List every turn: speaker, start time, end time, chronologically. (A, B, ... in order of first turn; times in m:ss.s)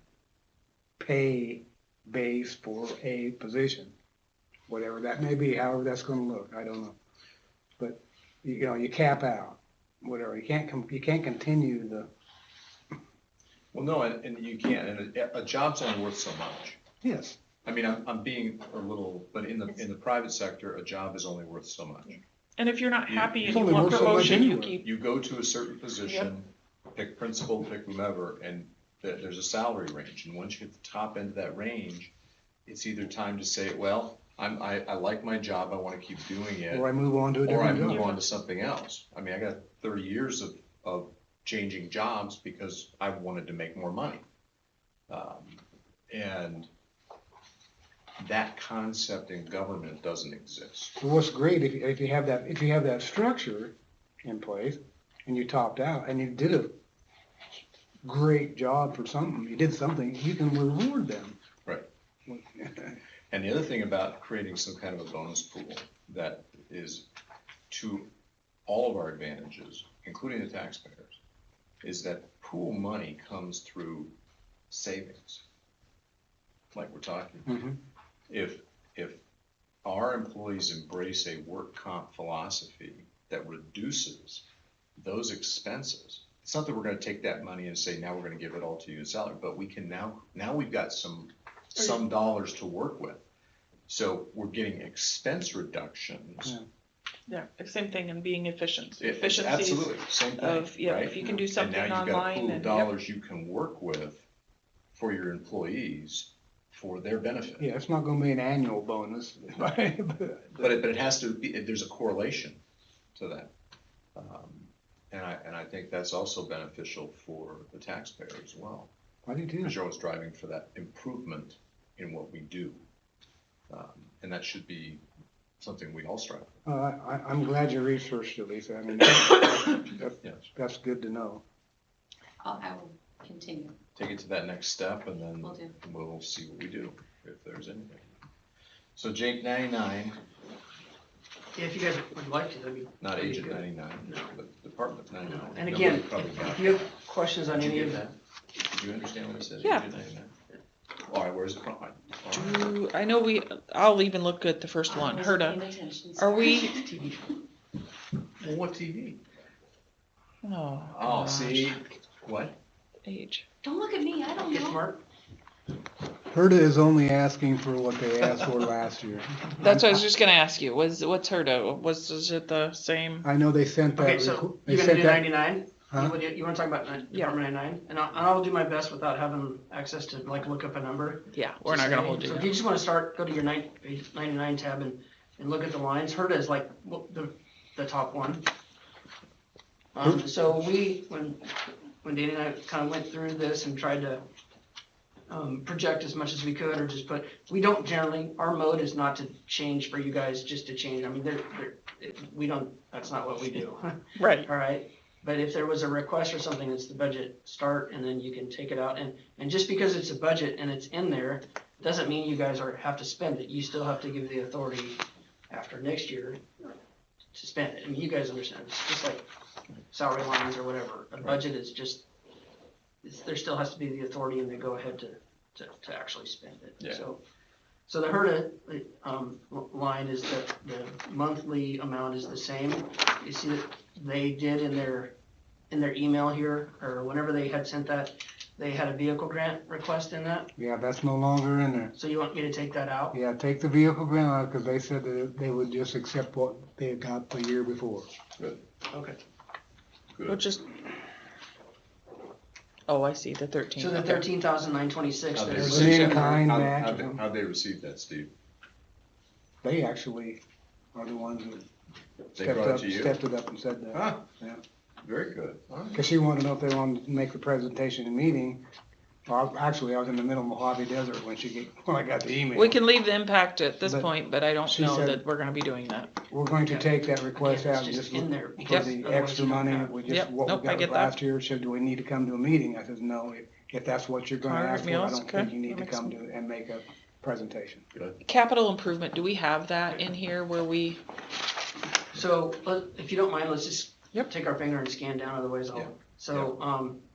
0:01.0-0:04.0 A
0:04.7-0:07.0 A
0:07.8-0:12.1 A
0:13.7-0:16.8 B
0:17.0-0:17.4 A
0:17.6-0:22.2 B
0:22.6-0:24.8 C
0:23.1-0:32.1 B
0:23.4-0:24.8 A
0:32.7-0:36.9 B
0:36.7-0:38.1 A
0:37.4-0:44.2 B
0:38.0-0:38.2 C
0:45.1-0:46.7 B
0:48.2-0:51.0 B
0:51.0-0:56.7 A
0:58.0-1:01.4 A
1:02.3-1:03.0 A
1:03.3-1:07.1 B
1:07.7-1:08.1 B
1:08.7-1:11.2 B
1:11.8-1:14.1 B
1:14.7-1:15.4 B
1:16.7-1:17.5 B
1:17.5-1:17.8 A
1:18.3-1:19.2 B
1:19.8-1:24.4 B
1:25.0-1:33.2 B
1:33.9-1:36.6 B
1:37.3-1:42.9 C
1:39.0-1:44.3 B
1:44.9-1:47.7 B
1:47.6-1:50.7 A
1:50.6-1:52.6 B
1:53.2-1:53.5 B
1:54.2-1:58.9 B
1:59.3-1:59.8 A
1:59.6-2:02.8 B
2:03.7-2:05.0 B
2:05.6-2:06.6 B
2:06.7-2:11.4 A
2:12.4-2:13.8 D
2:14.0-2:18.2 B
2:15.4-2:15.8 D
2:19.0-2:20.2 B
2:21.6-2:24.3 E
2:23.0-2:30.3 B
2:25.3-2:28.0 E
2:31.1-2:32.6 B
2:32.3-2:35.6 C
2:34.8-2:37.4 D
2:36.2-2:36.9 C
2:38.4-2:39.2 B
2:40.4-2:41.7 C
2:40.9-2:42.6 B
2:43.0-2:43.5 C
2:43.6-2:44.8 D
2:44.4-2:45.0 E
2:46.3-2:50.1 A
2:49.6-2:53.3 C
2:53.2-2:55.4 A
2:54.0-3:08.5 E
3:01.3-3:02.5 C
3:10.0-3:14.2 E
3:15.3-3:36.7 E
3:24.2-3:24.5 C
3:37.3-3:39.2 E
3:39.9-3:42.0 E
3:43.0-3:47.2 E
3:46.8-3:47.1 B
3:47.9-3:55.1 E
3:55.7-4:00.5 E
4:00.6-4:01.9 A
4:02.0-4:03.2 E
4:03.1-4:08.1 A
4:08.4-4:08.6 B
4:08.9-4:09.2 E
4:10.1-4:10.4 B
4:10.3-4:10.6 C
4:12.9-4:14.3 C
4:13.8-4:16.3 E
4:15.4-4:18.3 B
4:15.6-4:17.2 A
4:19.6-4:20.4 A
4:20.9-4:21.7 A
4:22.4-4:23.2 B
4:22.4-4:24.6 A
4:23.9-4:24.2 B
4:25.0-4:26.0 B
4:25.9-4:28.6 A
4:29.3-4:32.8 A
4:32.5-4:36.1 C
4:34.7-4:35.2 A
4:36.3-4:47.8 A
4:36.7-4:40.0 E
4:40.1-4:41.2 C
4:44.4-4:46.1 C
4:48.2-4:51.0 C
4:52.1-4:57.0 E
4:55.7-4:56.6 B